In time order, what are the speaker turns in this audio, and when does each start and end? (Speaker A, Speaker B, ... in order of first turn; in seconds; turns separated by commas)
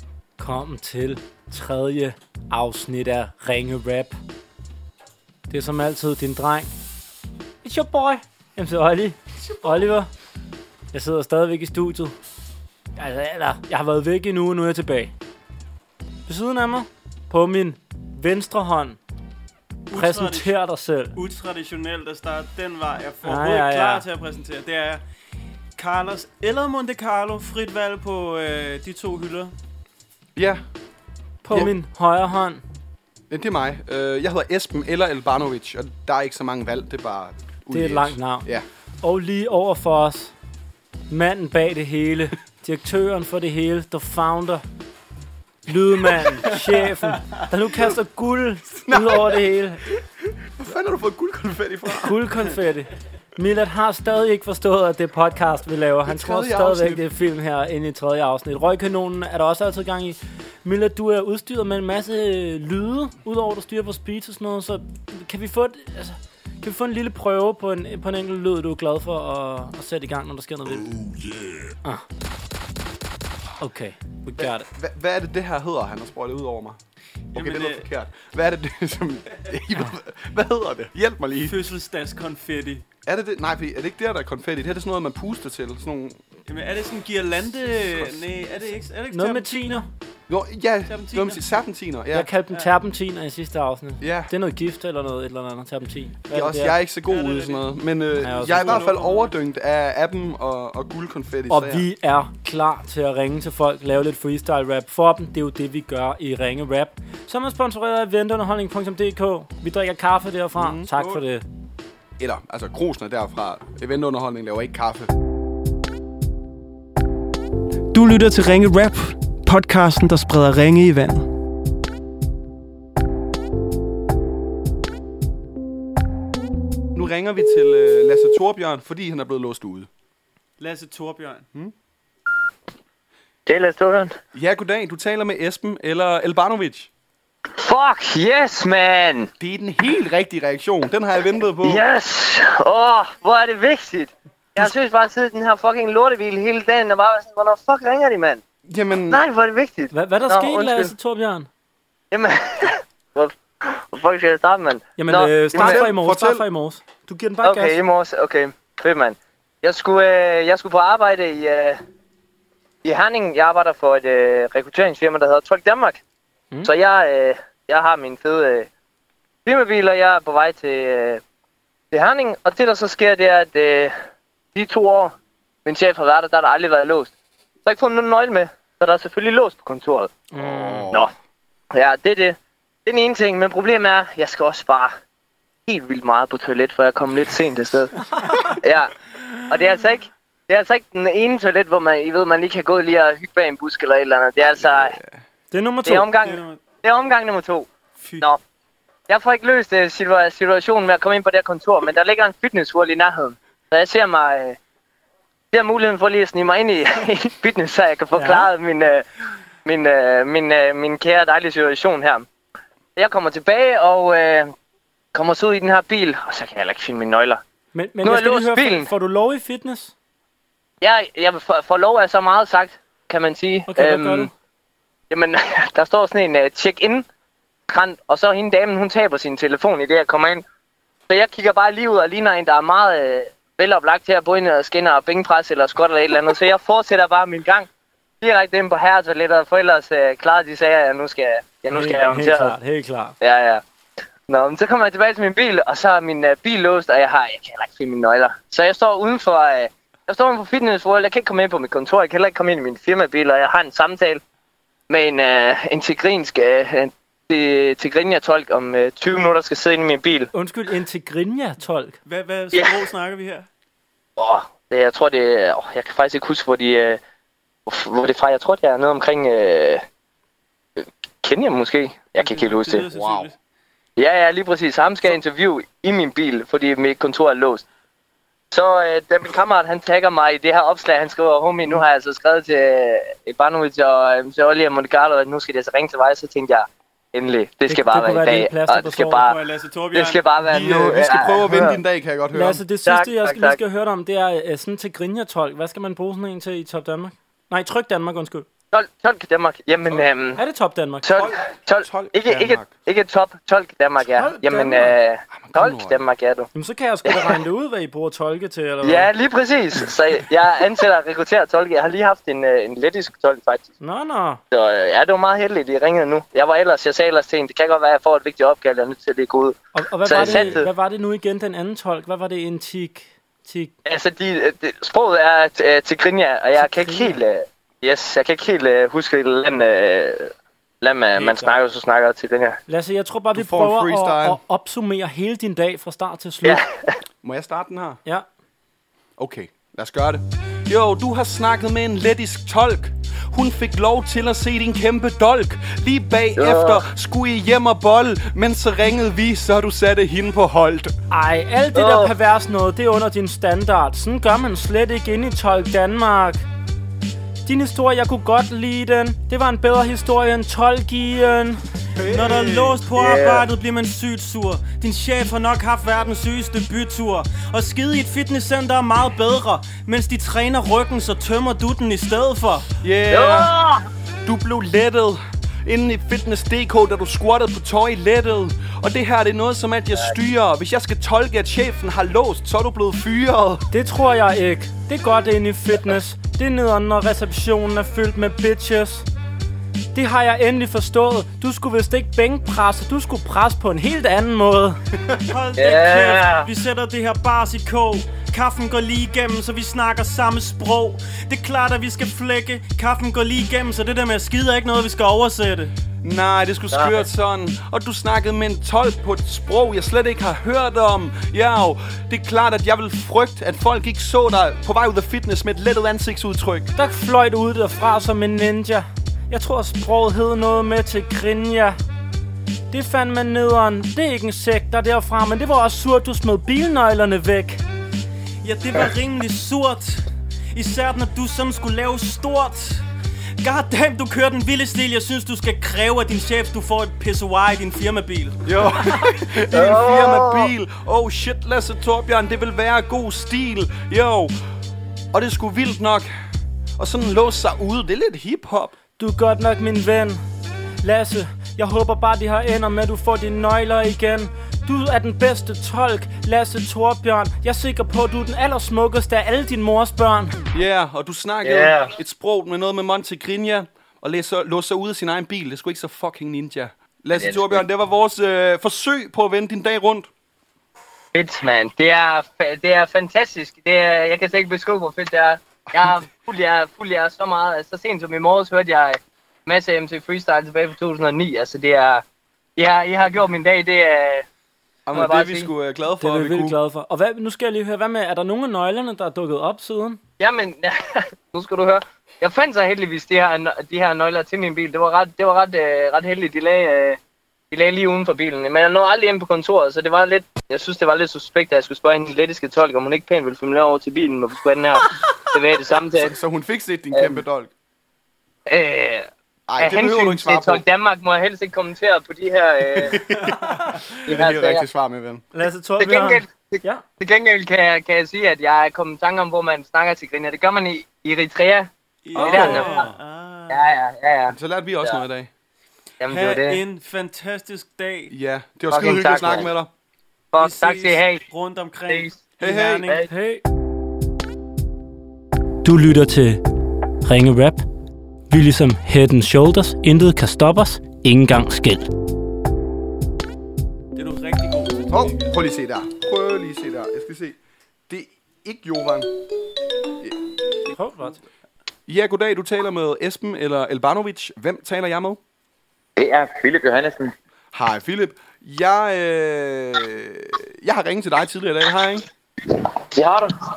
Speaker A: 0.4-4.2, Speaker A: 5.5-6.7, Speaker A: 7.6-10.1, Speaker A: 10.9-12.1, Speaker A: 13.0-15.1, Speaker A: 16.3-19.0, Speaker B: 19.9-20.5, Speaker A: 19.9-21.2, Speaker B: 21.1-25.0, Speaker A: 23.2-24.1, Speaker B: 25.8-29.5, Speaker C: 30.4-30.6, Speaker A: 31.4-32.6, Speaker C: 33.3-38.6, Speaker A: 37.7-38.5, Speaker A: 39.0-40.3, Speaker A: 41.1-44.6, Speaker A: 45.7-49.8, Speaker C: 48.8-52.2, Speaker A: 52.0-71.0, Speaker C: 56.0-57.0, Speaker A: 73.6-74.7, Speaker C: 74.4-76.8, Speaker C: 77.3-81.6, Speaker B: 77.3-77.9, Speaker B: 81.4-82.8, Speaker C: 83.0-86.2, Speaker B: 86.5-89.8, Speaker C: 87.7-88.3, Speaker A: 89.1-89.9, Speaker C: 90.3-92.3, Speaker B: 90.9-91.4, Speaker A: 92.1-96.8, Speaker C: 94.0-94.3, Speaker C: 96.3-101.9, Speaker B: 97.1-97.7, Speaker A: 98.2-98.8, Speaker B: 98.4-99.3, Speaker A: 101.5-111.4, Speaker C: 110.6-111.2, Speaker C: 112.2-115.1, Speaker B: 117.9-121.3, Speaker C: 127.0-129.9, Speaker B: 130.6-131.5, Speaker D: 133.5-134.2, Speaker C: 134.3-136.9, Speaker D: 137.6-139.3, Speaker C: 139.4-141.8, Speaker D: 141.6-148.4, Speaker C: 148.7-149.2, Speaker D: 149.1-150.9, Speaker A: 149.9-151.5, Speaker D: 152.1-155.9, Speaker A: 155.0-157.8, Speaker C: 155.6-156.4, Speaker D: 157.4-161.8, Speaker D: 162.8-166.0, Speaker D: 166.6-168.7, Speaker D: 169.4-171.2, Speaker D: 171.9-173.9, Speaker D: 174.6-175.1, Speaker D: 175.7-177.1, Speaker D: 177.7-180.2, Speaker A: 180.3-180.9, Speaker C: 180.3-181.1, Speaker D: 181.7-184.9, Speaker D: 185.7-188.9, Speaker D: 189.5-195.0, Speaker C: 194.4-195.2, Speaker A: 195.5-196.1, Speaker D: 195.9-197.7, Speaker B: 196.2-196.6, Speaker B: 198.0-198.2, Speaker D: 199.1-204.6, Speaker D: 205.5-209.1, Speaker B: 208.2-208.5, Speaker D: 209.7-212.3, Speaker D: 213.0-214.5, Speaker D: 215.1-217.4, Speaker A: 217.8-219.9, Speaker D: 218.0-218.9, Speaker D: 220.8-224.3, Speaker A: 223.7-224.3, Speaker D: 225.1-227.1, Speaker D: 227.7-230.4, Speaker D: 231.1-237.7, Speaker D: 238.2-242.6, Speaker A: 241.7-243.2, Speaker D: 243.2-243.6, Speaker D: 244.3-254.2, Speaker D: 254.9-260.3, Speaker A: 260.3-262.0, Speaker B: 262.1-263.5, Speaker D: 262.5-262.8, Speaker D: 264.2-267.0, Speaker D: 267.7-269.8, Speaker D: 270.8-272.9, Speaker B: 272.2-273.4, Speaker C: 272.9-273.3, Speaker D: 274.0-277.6, Speaker D: 278.5-289.4, Speaker A: 287.7-289.2, Speaker B: 289.2-290.3, Speaker D: 289.9-291.8, Speaker C: 290.4-292.6, Speaker A: 292.3-298.5, Speaker D: 292.9-293.6, Speaker D: 298.7-300.4, Speaker A: 300.4-301.1, Speaker D: 301.0-306.5, Speaker C: 301.1-302.7, Speaker A: 304.1-304.9, Speaker C: 305.3-306.0, Speaker A: 306.5-309.1, Speaker D: 307.1-307.4, Speaker D: 308.8-313.7, Speaker A: 313.8-314.4, Speaker D: 314.5-320.7, Speaker A: 319.8-323.7, Speaker C: 320.2-320.5, Speaker D: 323.9-332.6, Speaker A: 326.6-327.2, Speaker A: 331.2-331.6, Speaker A: 332.7-336.6, Speaker C: 333.3-334.4, Speaker D: 336.4-336.9, Speaker C: 337.2-338.0, Speaker C: 339.2-350.9, Speaker D: 346.4-346.8, Speaker A: 351.1-356.4, Speaker D: 351.8-352.1, Speaker A: 357.5-361.6, Speaker C: 362.0-362.8, Speaker B: 362.1-372.6, Speaker D: 363.0-363.4, Speaker C: 372.8-373.5, Speaker D: 373.1-373.8, Speaker C: 374.2-383.7, Speaker A: 383.7-389.1, Speaker A: 389.9-394.8, Speaker B: 395.2-405.7, Speaker D: 395.6-396.5, Speaker C: 406.0-416.7, Speaker D: 406.7-407.1, Speaker A: 416.8-421.8, Speaker A: 422.7-427.6, Speaker B: 428.4-432.8, Speaker B: 433.4-438.4, Speaker C: 438.4-444.3, Speaker C: 445.1-446.1, Speaker C: 446.8-448.8, Speaker A: 449.0-450.2, Speaker A: 450.8-460.4, Speaker C: 460.5-470.1, Speaker D: 461.4-461.9, Speaker E: 467.2-467.6, Speaker D: 471.1-482.0, Speaker D: 482.6-484.2, Speaker C: 484.9-486.6, Speaker D: 484.9-485.5, Speaker A: 486.0-490.0, Speaker D: 490.2-497.0, Speaker D: 497.5-506.1, Speaker C: 505.9-507.5, Speaker D: 508.5-509.1, Speaker C: 509.5-510.6, Speaker D: 509.6-513.0, Speaker C: 512.7-515.2, Speaker D: 514.1-514.6, Speaker A: 515.3-516.8, Speaker D: 515.8-522.9, Speaker B: 522.0-523.6, Speaker C: 522.2-522.7, Speaker A: 522.3-522.9, Speaker D: 523.5-525.0, Speaker C: 524.3-525.3, Speaker D: 526.0-526.6, Speaker B: 526.1-528.1, Speaker C: 528.1-529.7, Speaker D: 528.7-529.5, Speaker D: 530.3-531.2, Speaker B: 530.4-533.0, Speaker D: 531.9-532.1, Speaker C: 532.4-532.9, Speaker A: 533.1-533.4, Speaker A: 535.6-536.4, Speaker A: 537.0-537.6, Speaker A: 538.3-541.9, Speaker B: 544.0-545.3, Speaker C: 544.9-547.4, Speaker C: 547.9-549.1, Speaker A: 550.7-551.2, Speaker C: 551.9-555.2, Speaker E: 556.0-557.1, Speaker C: 557.5-562.0, Speaker E: 563.0-563.3